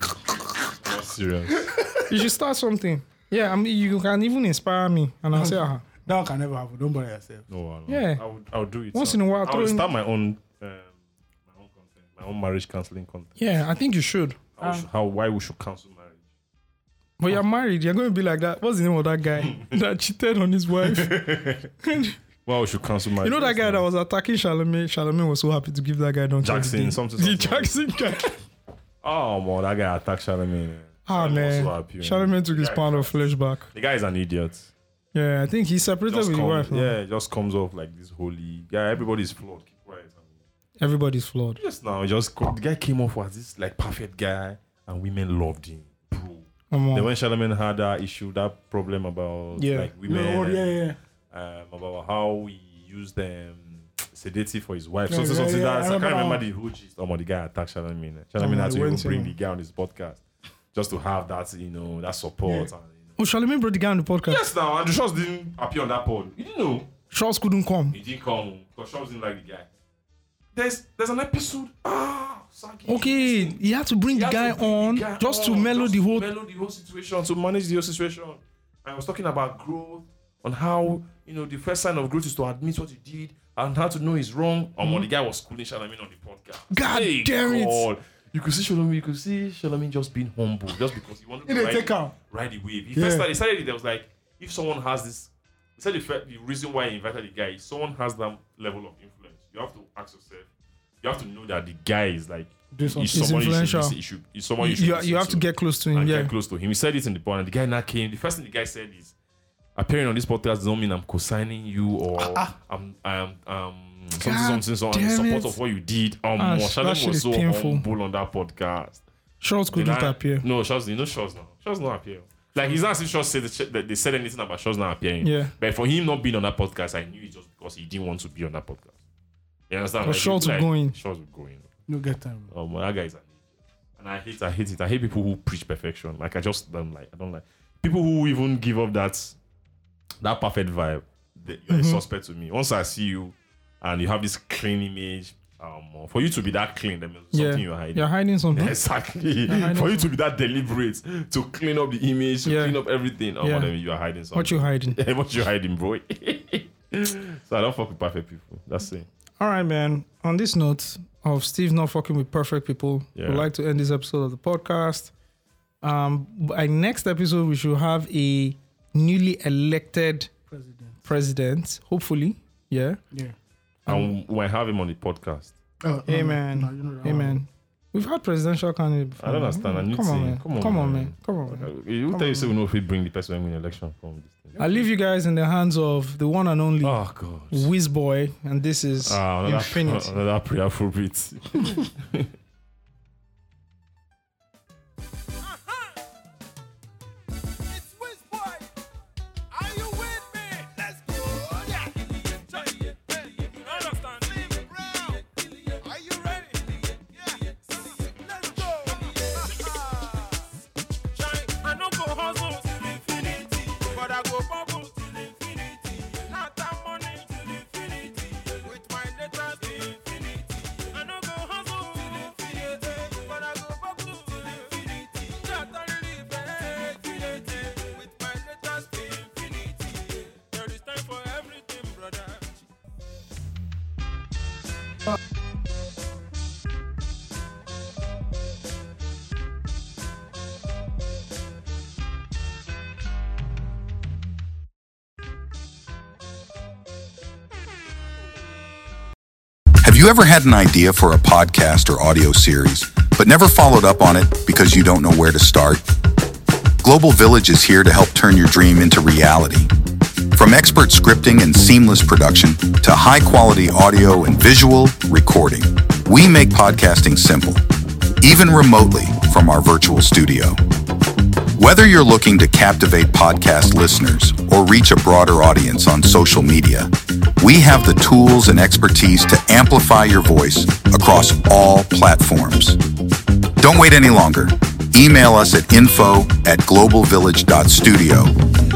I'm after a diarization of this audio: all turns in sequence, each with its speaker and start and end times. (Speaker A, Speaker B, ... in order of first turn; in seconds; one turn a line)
Speaker A: 0.8-1.8
Speaker B: 2.1-5.8
Speaker C: 5.3-7.5
Speaker A: 7.5-13.3
Speaker B: 7.9-8.2
Speaker B: 8.9-9.9
Speaker B: 13.4-14.6
Speaker A: 14.6-16.2
Speaker B: 17.2-21.2
Speaker A: 20.8-21.7
Speaker B: 21.8-22.2
Speaker A: 22.4-23.8
Speaker B: 23.2-28.4
Speaker A: 26.4-27.8
Speaker A: 29.0-34.7
Speaker B: 31.1-33.7
Speaker B: 35.1-37.0
Speaker A: 36.1-40.3
Speaker B: 40.8-41.6
Speaker A: 41.6-50.7
Speaker B: 46.7-47.1
Speaker B: 49.6-49.9
Speaker C: 50.0-51.0
Speaker A: 51.3-60.2
Speaker C: 55.1-56.4
Speaker B: 58.4-59.3
Speaker A: 60.7-63.1
Speaker B: 63.2-64.4
Speaker A: 64.3-66.9
Speaker B: 67.1-67.9
Speaker A: 67.9-69.7
Speaker A: 70.5-73.6
Speaker B: 72.9-76.3
Speaker A: 74.1-100.5
Speaker B: 86.7-87.8
Speaker C: 91.5-92.1
Speaker C: 92.9-93.3
Speaker A: 101.0-109.1
Speaker C: 102.7-103.3
Speaker B: 103.1-104.0
Speaker B: 104.6-106.3
Speaker A: 109.8-119.0
Speaker C: 112.2-112.5
Speaker B: 114.1-115.6
Speaker B: 116.4-117.8
Speaker B: 119.4-120.4
Speaker A: 119.7-128.9
Speaker B: 125.2-125.5
Speaker A: 129.7-131.7
Speaker B: 130.0-130.9
Speaker C: 131.9-132.5
Speaker A: 132.5-133.3
Speaker A: 134.0-139.3
Speaker A: 140.2-159.1
Speaker B: 141.7-142.0
Speaker B: 147.3-148.7
Speaker B: 149.5-150.1
Speaker B: 152.4-152.8
Speaker B: 153.4-153.7
Speaker B: 154.3-155.0
Speaker B: 159.4-165.1
Speaker A: 163.1-163.5
Speaker B: 165.8-170.3
Speaker C: 170.5-171.0
Speaker B: 171.0-173.0
Speaker A: 173.8-175.5
Speaker C: 175.8-177.4
Speaker B: 176.1-182.5
Speaker A: 179.2-184.6
Speaker C: 184.6-184.8
Speaker B: 184.6-187.0
Speaker A: 186.8-187.7
Speaker B: 187.5-190.2
Speaker A: 189.0-192.3
Speaker D: 195.4-195.9
Speaker D: 197.6-198.7
Speaker D: 199.5-210.4
Speaker D: 211.1-232.7
Speaker E: 249.8-256.0
Speaker E: 256.8-259.7
Speaker E: 260.3-267.6
Speaker E: 268.2-270.6
Speaker E: 271.5-282.8
Speaker E: 283.6-288.3